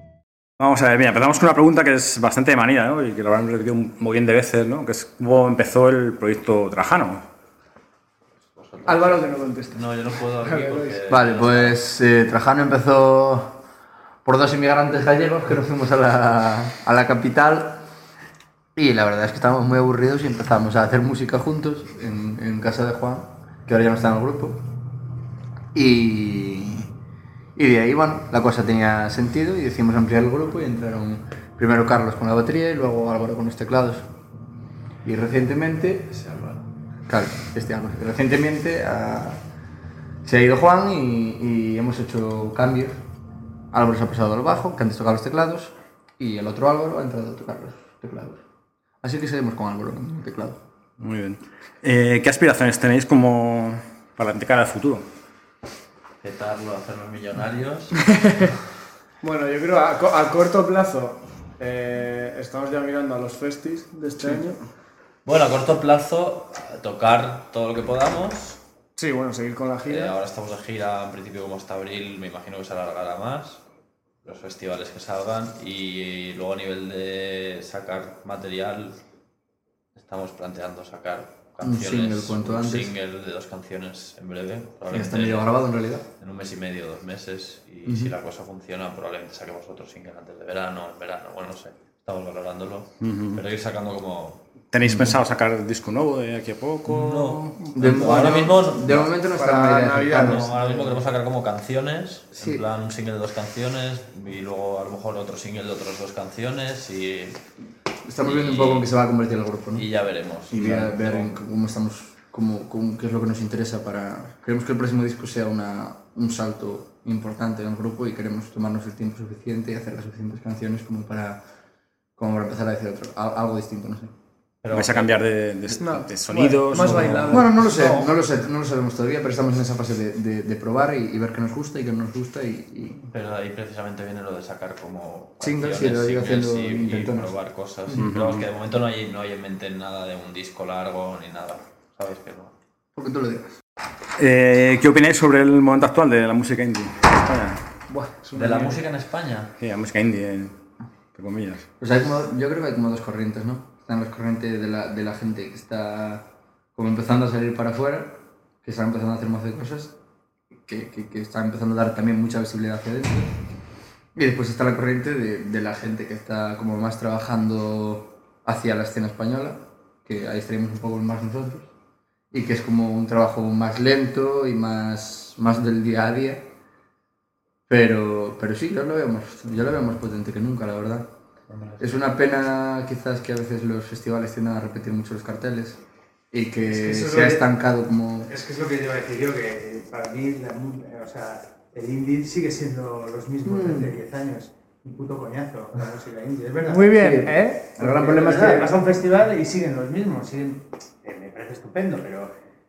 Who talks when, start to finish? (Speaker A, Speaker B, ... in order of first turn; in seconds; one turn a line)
Speaker A: 0.6-7.2
Speaker B: 8.5-11.8
Speaker C: 8.8-9.9
Speaker C: 10.4-10.9
Speaker D: 11.1-13.6
Speaker D: 14.2-17.8
Speaker D: 18.8-24.6
Speaker D: 25.7-26.9
Speaker D: 27.6-34.0
Speaker D: 35.0-39.4
Speaker D: 40.2-43.0
Speaker D: 43.7-48.4
Speaker D: 49.0-50.6
Speaker A: 51.0-55.0
Speaker B: 56.2-58.0
Speaker C: 59.2-64.6
Speaker B: 65.2-68.6
Speaker C: 69.0-70.2
Speaker B: 69.9-73.6
Speaker B: 74.2-79.0
Speaker B: 80.0-85.5
Speaker D: 81.6-83.0
Speaker D: 84.9-86.0
Speaker B: 86.2-94.4
Speaker D: 87.8-88.1
Speaker A: 93.0-93.4
Speaker A: 94.7-97.7
Speaker D: 94.8-95.2
Speaker B: 96.9-99.1
Speaker D: 97.8-100.5
Speaker C: 99.3-101.0
Speaker B: 100.1-107.4
Speaker D: 102.4-102.7
Speaker D: 108.1-109.9
Speaker B: 108.2-108.9
Speaker B: 109.7-111.3
Speaker D: 110.5-121.4
Speaker D: 122.2-124.1
Speaker B: 124.6-125.8
Speaker A: 124.7-127.5
Speaker C: 125.8-127.9
Speaker B: 126.8-128.2
Speaker D: 127.3-133.0
Speaker B: 133.1-142.5
Speaker D: 135.4-138.0
Speaker A: 138.0-138.5
Speaker D: 142.9-143.5
Speaker A: 144.2-147.6
Speaker C: 147.9-148.8
Speaker B: 148.3-149.5
Speaker A: 149.6-150.6
Speaker A: 151.1-151.7
Speaker D: 151.8-159.9
Speaker D: 160.7-163.3
Speaker D: 164.2-171.7
Speaker D: 172.3-176.4
Speaker D: 177.7-181.1
Speaker B: 181.5-182.0
Speaker D: 181.8-185.8
Speaker D: 186.3-188.3
Speaker E: 186.7-187.4
Speaker E: 188.3-202.3
Speaker D: 193.4-193.9
Speaker C: 196.7-197.7
Speaker D: 197.0-198.8